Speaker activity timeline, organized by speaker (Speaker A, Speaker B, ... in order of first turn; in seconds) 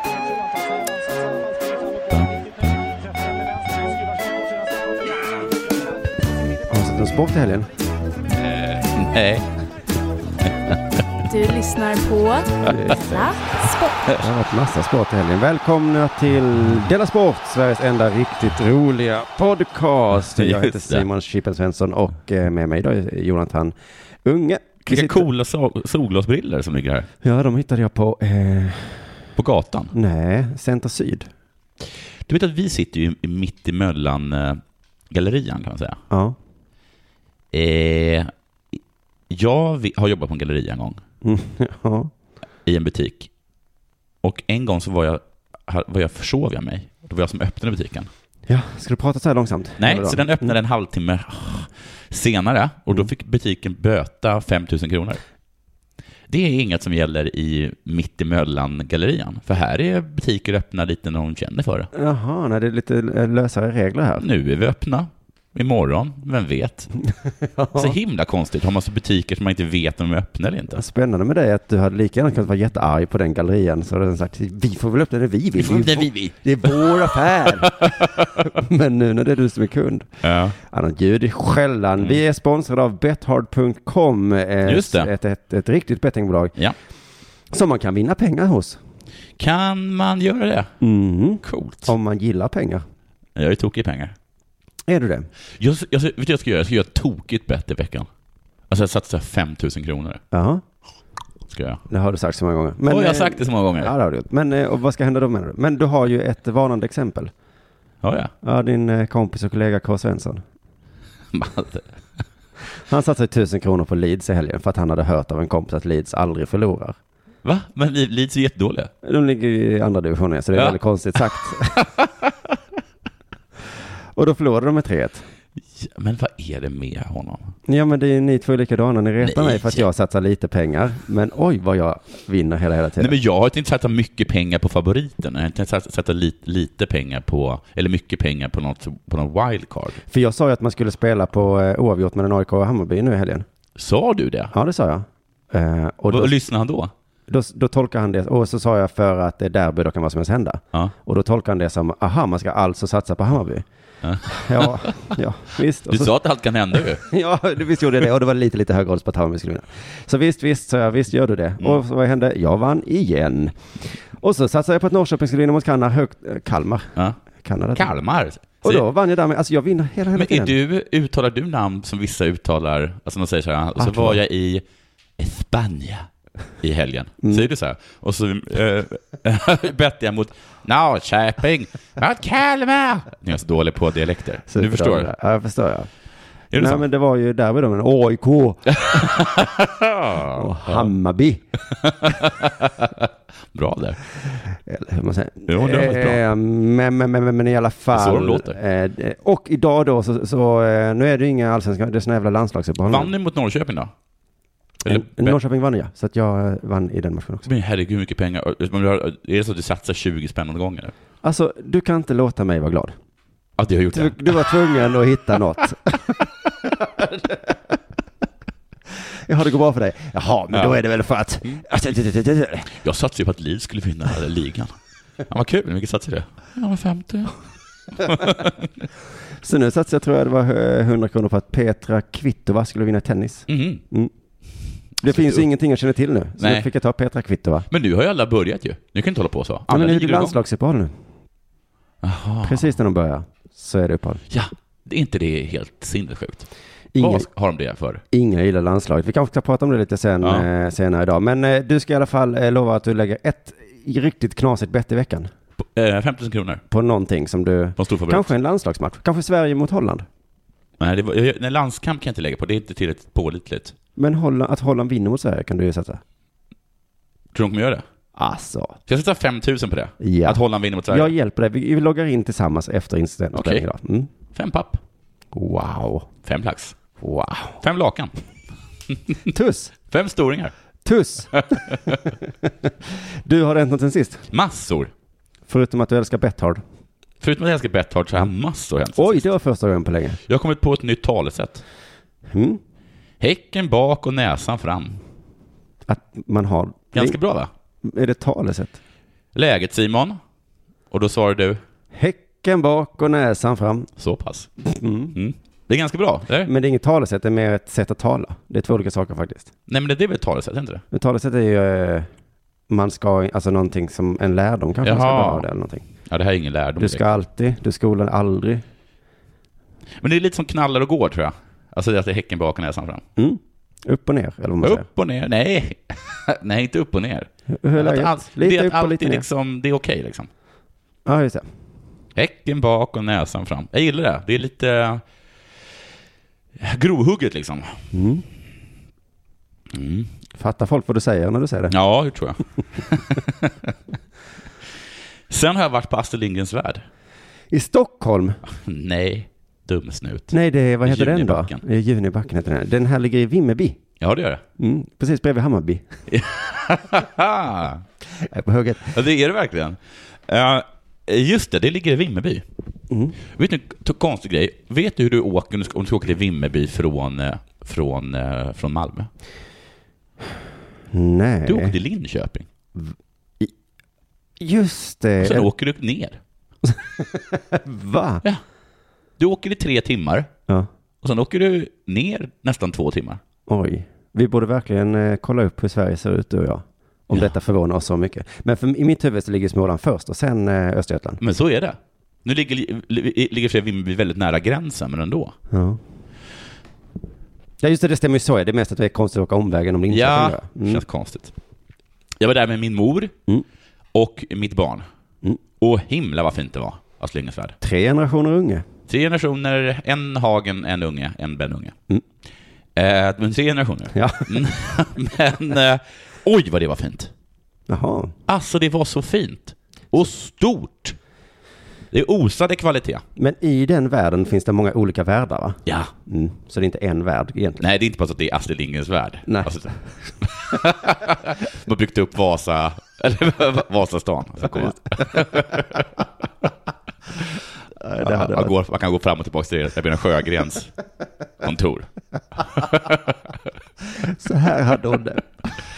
Speaker A: 2.1-2.8, 8.4-9.5, 20.4-21.1, 24.9-27.1, 29.4-29.9, 32.2-36.0, 37.5-38.8, 39.3-41.0, 42.6-43.3, 44.2-48.1, 49.8-55.2, 56.3-61.9, 64.2-66.9, 67.7-70.8, 75.6-78.5, 80.2-80.6, 84.7-85.1, 89.4-90.7, 91.4-91.9, 93.3-94.1, 95.6-98.1, 98.7-100.2, 101.5-101.8, 102.9-103.9, 108.0-108.3, 111.3-111.9, 117.4-118.9, 121.7-122.3, 125.8-127.5, 129.2-129.8, 133.0-140.0, 143.8-144.5, 146.1-146.9, 154.0-155.1, 155.9-157.0, 167.7-168.8, 170.1-174.6, 175.2-176.1, 176.6-185.1, 186.5-186.8, 188.7-190.9, 191.7-194.0, 195.5-196.2, 197.9-198.6, 202.8-203.9, 204.8-205.4, 207.4-210.9, 213.6-214.5, 220.5-220.8, 222.7-224.8, 225.3-227.3, 227.9-228.7, 233.5-233.8, 235.0-235.4, 236.4-236.7, 237.7-240.4, 242.0-242.7, 244.3-246.5, 247.0-248.0, 250.2-250.5, 255.8-256.6, 257.8-258.3, 260.8-263.7, 267.3-267.8, 268.9-271.1, 273.3-273.7, 274.3-274.8, 276.2-276.8, 277.6-278.1, 279.9-280.5, 281.3-282.0, 284.3-284.9, 287.2-289.3, 290.3-291.6, 293.2-295.0, 296.9-297.5, 299.3-300.2, 300.9-301.6, 304.0-304.5, 305.1-306.5, 309.7-310.8, 314.8-315.4, 316.1-317.2, 320.0-323.0, 324.6-330.3, 332.1-335.0, 336.6-337.8, 339.7-340.1, 341.7-343.7, 345.3-346.8, 348.6-351.6, 354.0-354.4, 356.1-357.8, 358.9-362.4, 363.3-369.1, 371.4-372.5, 375.2-376.2, 379.2-380.3, 381.0-383.2, 391.2-395.3, 399.9-401.3, 402.2-403.1, 403.9-404.8, 405.6-407.6, 408.9-411.7, 412.8-417.1, 418.3-421.0, 421.9-423.0, 425.6-425.9, 427.6-435.8, 438.0-440.7, 441.4-441.9, 442.5-443.1
Speaker B: 6.7-7.7, 12.7-13.2, 14.2-25.2, 27.2-29.1, 29.9-31.3, 36.1-36.4, 41.2-42.1, 48.5-50.5, 61.9-64.2, 67.2-68.0, 70.7-86.5, 87.5-88.8, 90.8-92.8, 94.9-95.3, 100.3-100.6, 101.9-107.3, 108.4-110.4, 112.9-116.9, 119.0-121.9, 124.1-125.2, 127.7-133.1, 140.1-143.4, 144.5-146.3, 147.3-153.6, 154.2-156.1, 157.0-166.9, 167.4-167.9, 168.6-170.5, 173.8-174.2, 177.2-177.5, 184.5-185.9, 186.5-189.4, 190.3-191.4, 194.5-203.1, 204.8-207.5, 211.2-212.9, 213.9-217.6, 219.0-222.7, 229.4-234.1, 235.0-237.7, 239.7-240.9, 242.4-244.2, 246.9-247.3, 248.1-255.3, 256.7-260.1, 264.0-266.0, 268.1-268.8, 270.0-274.1, 275.3-276.1, 277.0-277.6, 279.3-279.7, 280.8-284.2, 285.5-286.6, 288.9-290.2, 292.3-292.6, 295.9-297.2, 297.8-298.8, 301.9-303.9, 304.6-305.1, 306.4-309.5, 310.9-312.1, 312.7-315.8, 316.8-318.6, 323.1-324.9, 327.5-329.2, 331.1-331.4, 337.9-338.2, 340.4-341.7, 347.5-348.4, 350.3-353.8, 354.6-355.9, 358.1-359.0, 362.9-363.1, 370.9-371.7, 372.7-373.5, 374.4-375.5, 376.6-378.2, 383.5-391.2, 395.5-395.8, 397.6-400.8, 407.6-408.6, 413.9-414.4, 417.7-418.1, 423.1-427.6, 429.3-429.6, 434.4-435.3, 437.8-438.5, 443.9-445.3
Speaker C: 11.3-14.0